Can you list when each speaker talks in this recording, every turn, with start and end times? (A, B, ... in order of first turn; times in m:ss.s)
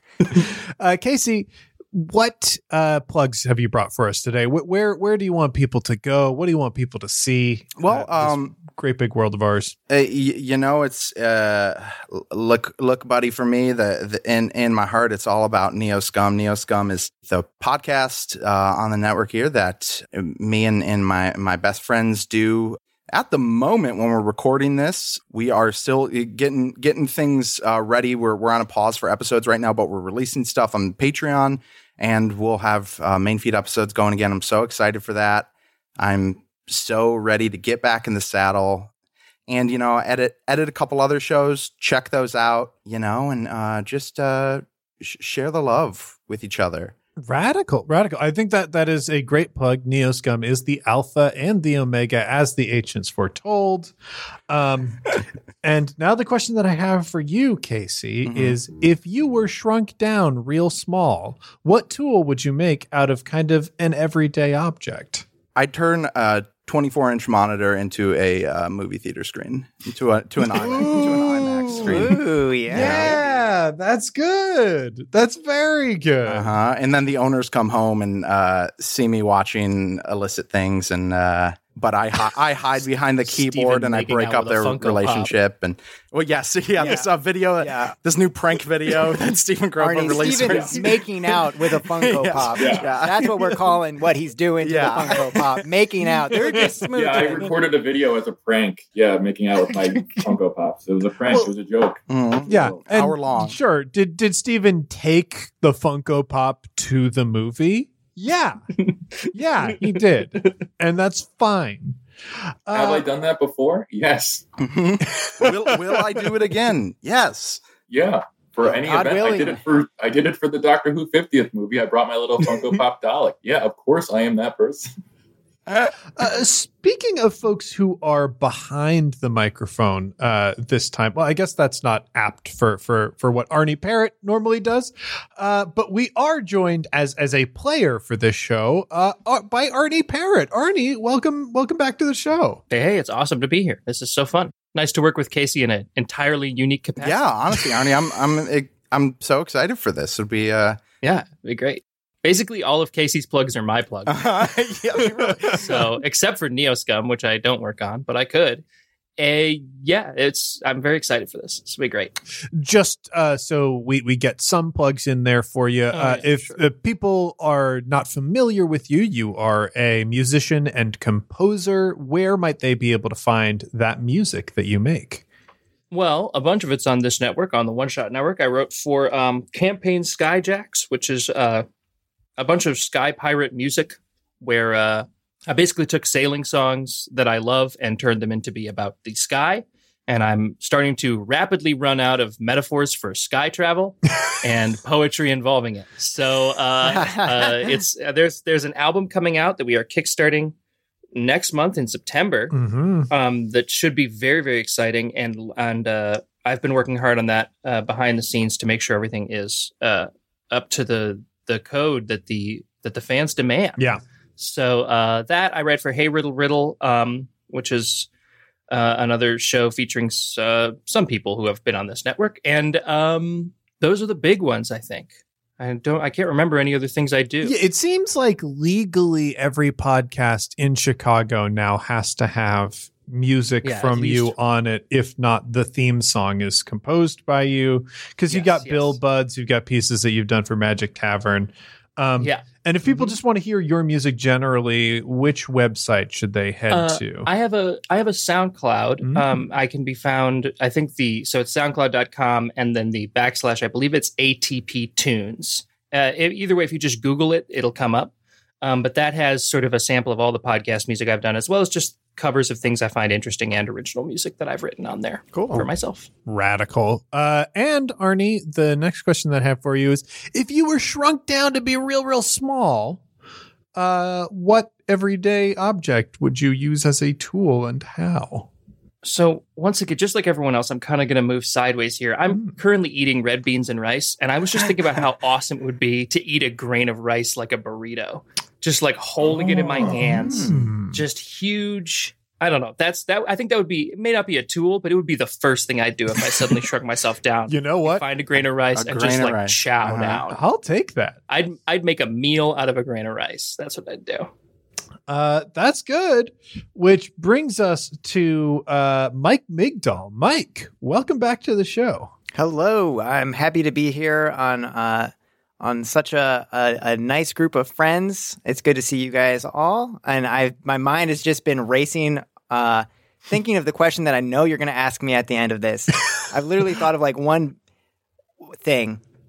0:00.3-0:09.8 A
0:07.8-0:08.6 B
0:09.9-0:38.9 B
0:39.5-0:47.0 B
0:47.2-0:53.9 A
0:54.5-1:05.3 A
0:58.2-0:58.6 B
1:05.6-1:12.2 B
1:10.5-1:16.5 A
1:11.7-1:13.2 C
1:12.7-1:13.2 B
1:16.3-1:33.8 B
1:23.3-1:25.3 D
1:26.8-1:27.1 C
1:27.6-1:27.9 C
1:29.8-1:37.6 C
1:32.6-1:32.9 E
1:34.6-1:37.3 B
1:36.6-1:36.8 A
1:36.9-1:42.8 E
1:39.8-1:40.2 A
1:41.2-1:41.5 A
1:42.1-1:43.6 B
1:42.5-1:48.6 A
1:48.8-1:49.8 D
1:49.3-1:52.0 A
1:52.7-1:53.1 A
1:52.7-1:54.4 E
1:54.6-1:57.6 B
1:55.1-1:56.2 A
1:57.9-2:04.9 E
1:58.6-1:59.6 C
2:05.7-2:05.9 B
2:06.2-2:22.6 A
2:22.7-2:27.4 D
2:27.0-2:30.8 B
2:31.0-2:34.3 D
2:34.1-2:35.8 B
2:35.5-2:38.6 D
2:39.2-2:42.2 D
2:42.6-2:55.2 A
2:45.9-2:46.6 D
2:55.9-3:01.7 D
3:02.4-3:20.5 D
3:17.0-3:17.5 C
3:21.1-3:22.5 D
3:22.5-3:23.1 A
3:23.1-3:33.8 D
3:34.4-3:38.1 D
3:38.7-3:47.6 D
3:47.4-4:07.3 A
3:53.6-3:54.4 D
3:58.3-3:59.0 D
4:02.2-4:03.1 D
4:06.7-4:26.1 D
4:09.0-4:09.5 A
4:25.3-4:25.7 A
4:26.3-4:33.0 A
4:33.8-4:38.5 A
4:39.0-5:00.4 D
4:49.2-4:50.0 E
4:49.5-4:51.0 A
4:50.2-4:50.6 B
4:57.5-4:58.0 A
4:58.8-5:00.2 B
5:00.3-5:01.2 A
5:01.3-5:04.3 D
5:05.1-5:12.1 A
5:12.4-5:27.6 C
5:28.6-5:29.0 C